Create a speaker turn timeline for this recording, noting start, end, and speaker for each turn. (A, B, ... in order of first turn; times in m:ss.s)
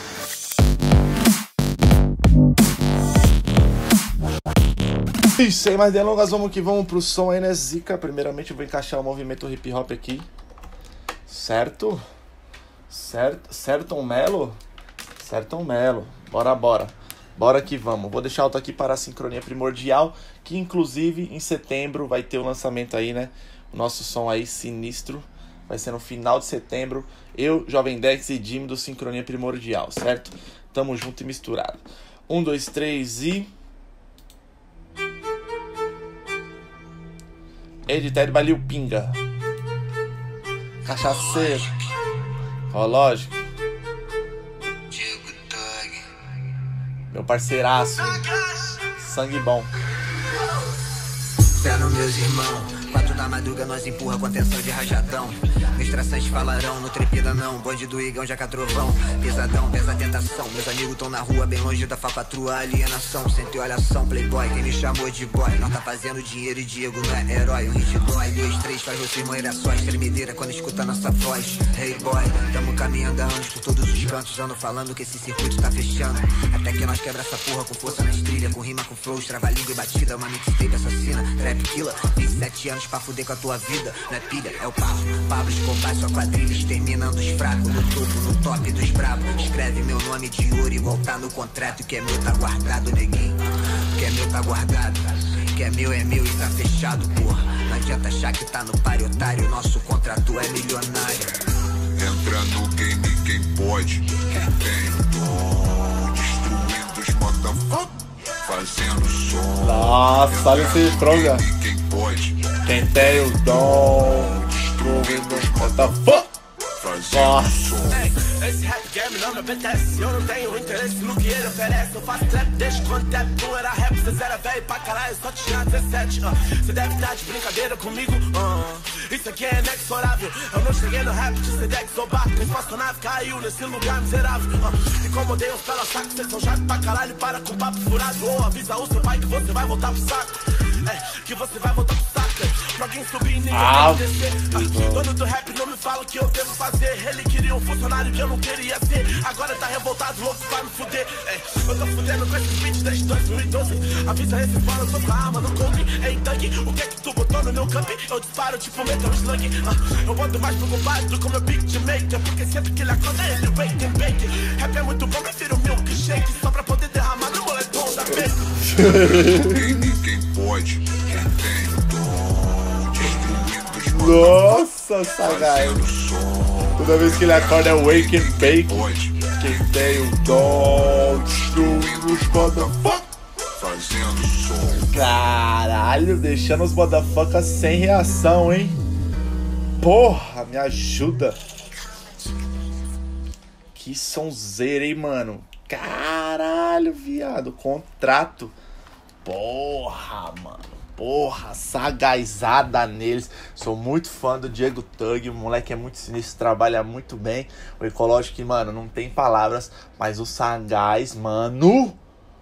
0:05.4-0:10.3 A
0:11.3-0:12.0 A
0:12.9-0:14.6 A
0:15.2-0:33.5 A
0:37.9-0:39.2 A
0:40.8-0:41.8 A
0:41.0-0:41.6 B
0:42.7-0:43.4 A
0:44.9-0:46.1 B
0:47.1-0:49.7 A
0:51.5-1:41.4 B
1:41.9-1:56.1 C
1:49.6-1:51.5 A
1:52.6-1:56.3 A
1:56.7-1:58.1 C
1:57.1-1:57.9 A
1:57.9-2:48.6 D
2:23.5-2:25.1 A
2:48.5-2:49.9 A
2:48.7-2:54.7 C
2:53.7-2:55.9 A
2:55.2-3:04.9 C
2:56.8-3:03.1 A
3:04.7-3:08.8 A
3:09.8-3:11.4 A
3:13.7-3:18.6 A
3:19.2-3:32.0 A